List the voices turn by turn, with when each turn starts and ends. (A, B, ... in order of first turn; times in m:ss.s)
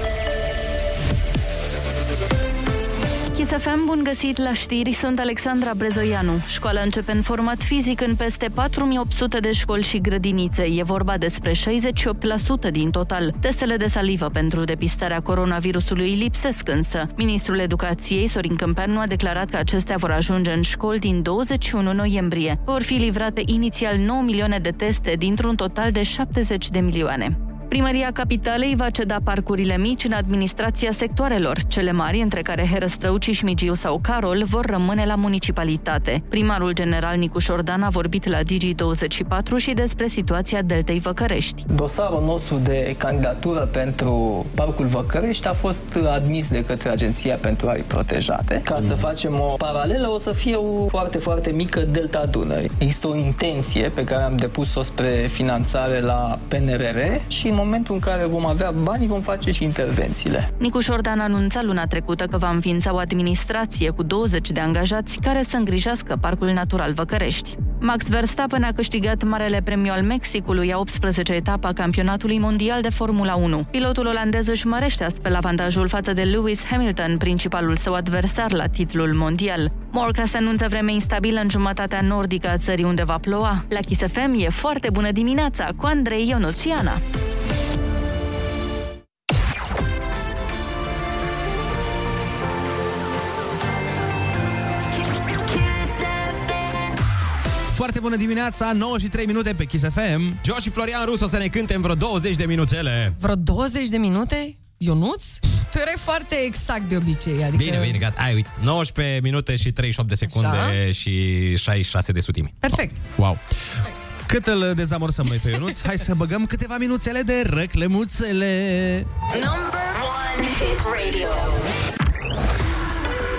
0:03.4-0:41.7 A
0:41.7-1:00.5 B
1:00.6-1:27.0 A
1:35.2-1:36.3 C
1:37.7-1:40.4 D
1:40.4-1:43.2 E
1:43.2-1:48.0 F
1:47.5-1:52.6 E
1:50.3-1:50.8 F
1:52.6-1:53.0 F
1:53.2-1:53.4 D
1:54.3-1:59.1 D
1:59.3-2:01.7 C